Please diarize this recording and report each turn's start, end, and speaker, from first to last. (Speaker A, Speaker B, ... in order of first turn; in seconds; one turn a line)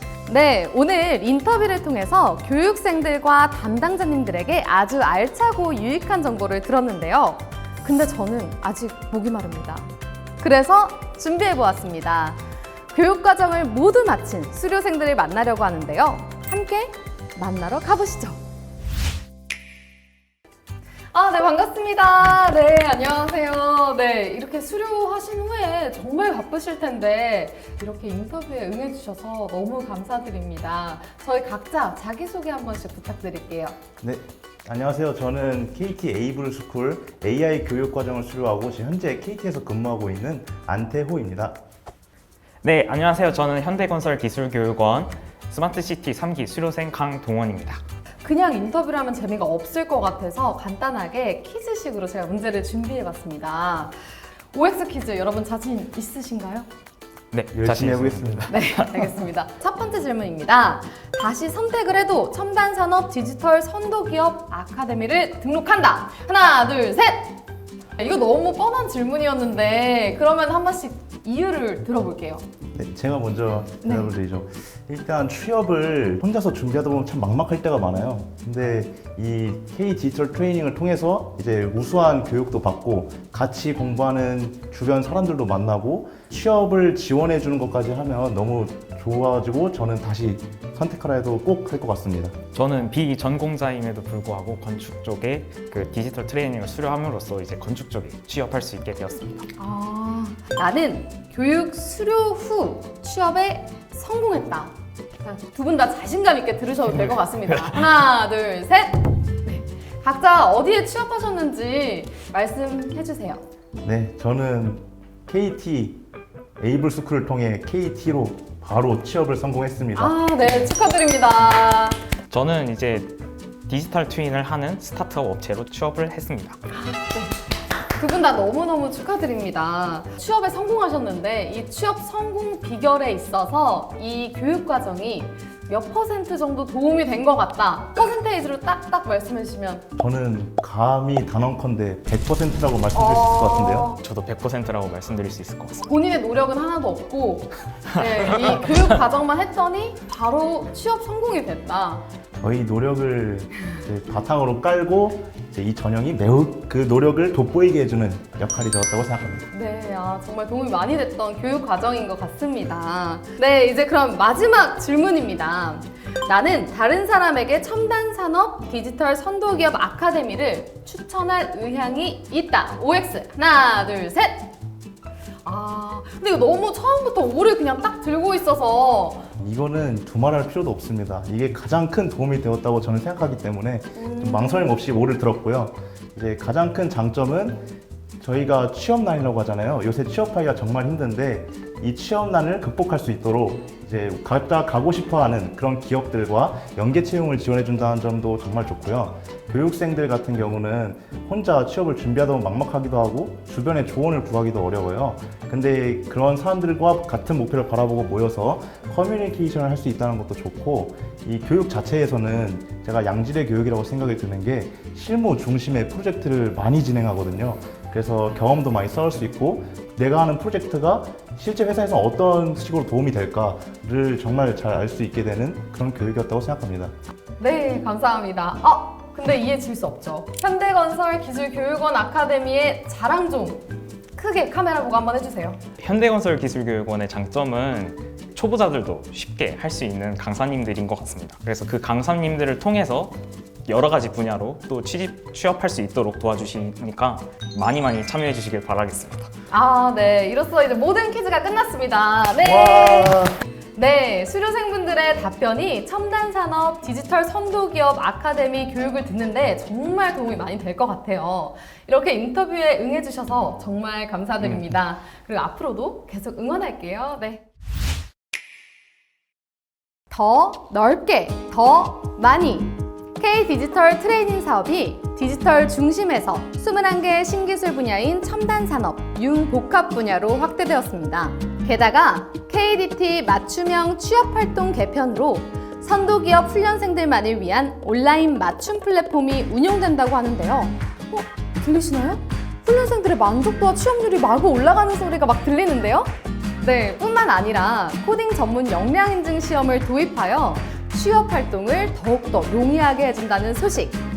Speaker A: 0.3-12.4
Speaker A: 12.9-18.4
Speaker A: 21.1-33.8
Speaker B: 34.0-41.6
Speaker C: 42.6-47.8
Speaker A: 48.2-54.0
Speaker A: 54.5-56.7
Speaker C: 57.3-59.0
Speaker B: 57.5-58.5
Speaker A: 58.5-67.4
Speaker A: 68.0-72.4
Speaker B: 72.7-92.3
Speaker A: 73.8-74.1
Speaker C: 92.5-99.5
Speaker A: 99.6-113.4
Speaker B: 113.8-116.0
Speaker B: 116.6-120.2
Speaker A: 120.0-122.0
Speaker C: 122.3-123.1
Speaker C: 123.7-126.6
Speaker A: 126.7-127.3
Speaker A: 128.0-139.8
Speaker B: 140.0-143.9
Speaker A: 142.9-144.0
Speaker C: 144.0-145.8
Speaker A: 145.8-152.0
Speaker B: 152.3-159.4
Speaker A: 159.5-174.5
Speaker A: 175.4-179.2
Speaker B: 179.4-187.7
Speaker A: 183.9-184.8
Speaker B: 188.2-226.9
Speaker A: 227.4-233.6
Speaker A: 234.1-235.6
Speaker C: 235.8-249.3
Speaker A: 249.5-253.2
Speaker B: 252.4-253.3
Speaker A: 253.8-267.4
Speaker A: 270.1-304.0